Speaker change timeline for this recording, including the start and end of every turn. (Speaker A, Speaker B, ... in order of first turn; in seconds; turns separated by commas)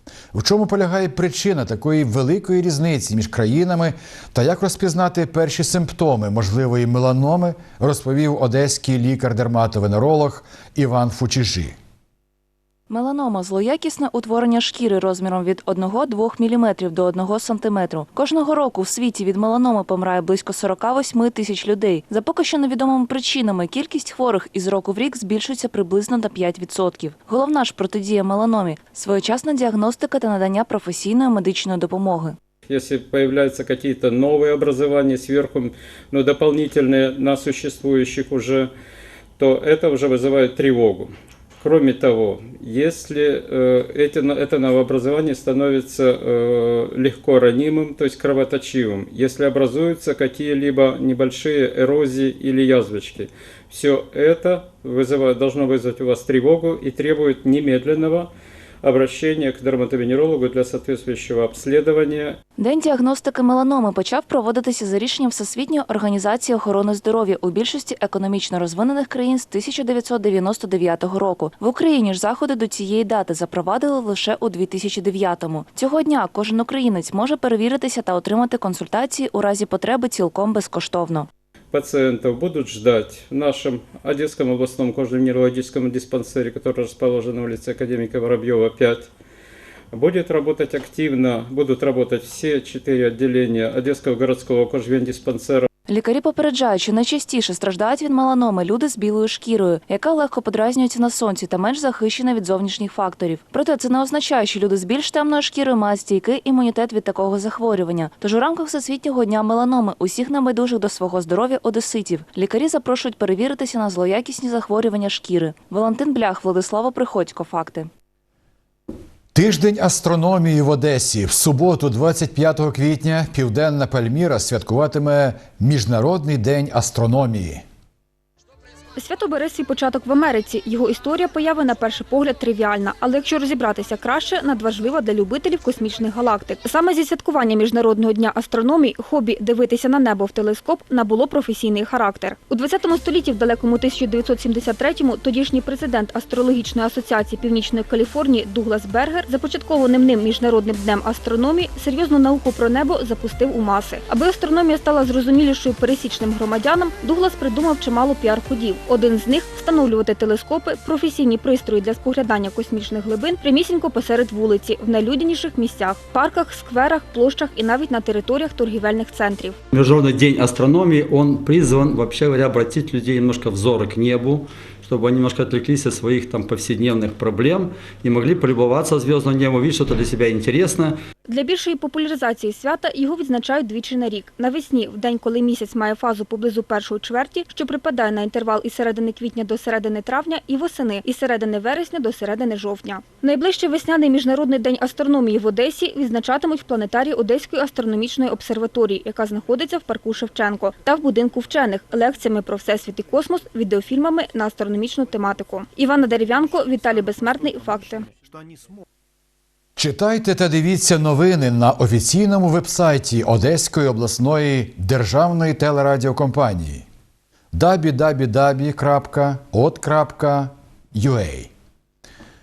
Speaker A: 0.3-11.8, Speaker B: 12.9-32.4, Speaker C: 32.7-38.7, Speaker C: 39.4-58.3, Speaker C: 58.8-62.4, Speaker B: 62.6-81.3, Speaker C: 81.7-89.1, Speaker C: 89.9-95.7, Speaker B: 95.9-117.9, Speaker A: 119.3-127.7, Speaker D: 129.0-169.6, Speaker E: 169.7-180.9, Speaker D: 181.3-208.1, Speaker A: 209.8-216.9, Speaker A: 217.5-221.5